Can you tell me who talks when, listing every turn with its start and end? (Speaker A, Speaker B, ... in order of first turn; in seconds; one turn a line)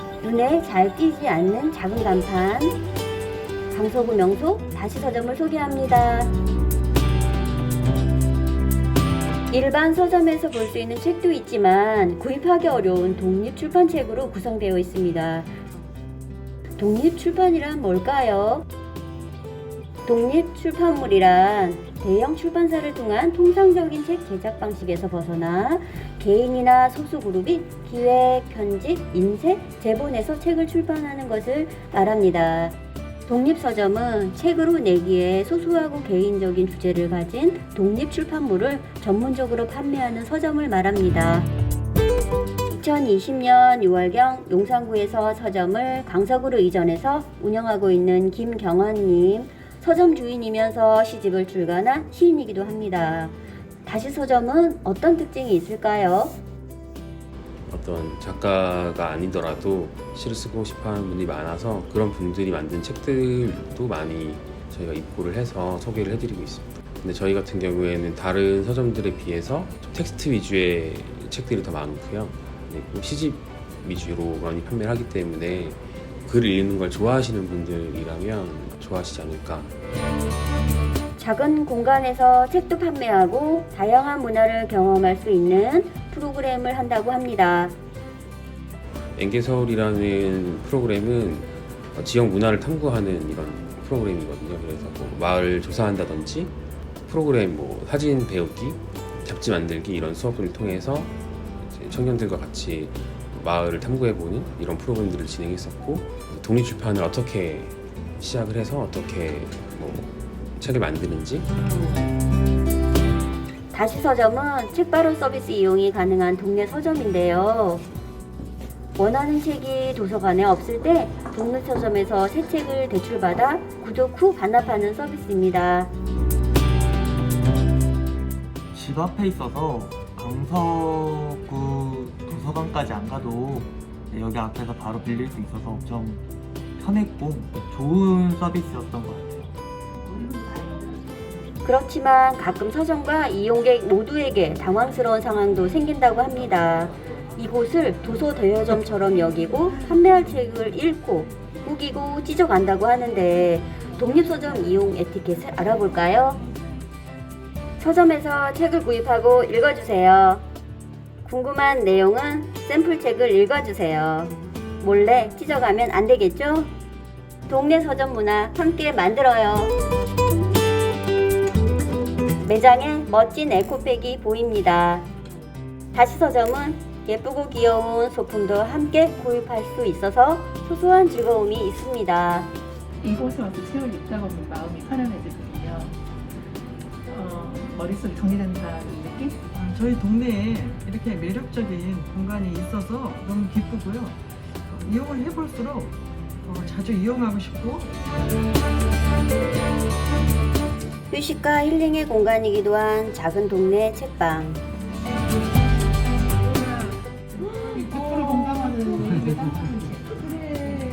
Speaker A: 0.2-2.8
Speaker A: 3.7-6.3
Speaker A: 9.5-15.5
Speaker A: 16.8-18.6
Speaker A: 20.1-32.8
Speaker A: 33.3-41.5
Speaker A: 42.7-53.3
Speaker A: 53.9-56.4
Speaker B: 57.7-79.7
Speaker A: 81.2-87.8
Speaker B: 89.2-96.5
Speaker B: 97.1-111.5
Speaker A: 113.7-117.8
Speaker A: 119.0-125.9
Speaker C: 128.7-136.2
Speaker C: 136.8-139.6
Speaker D: 140.1-140.8
Speaker A: 141.7-156.4
Speaker A: 157.8-160.4
Speaker A: 161.2-166.7
Speaker A: 167.5-169.7
Speaker A: 172.4-175.1
Speaker A: 175.9-182.5
Speaker D: 183.0-186.0
Speaker D: 187.1-189.4
Speaker E: 189.6-197.9
Speaker A: 201.1-204.6
Speaker E: 208.1-209.2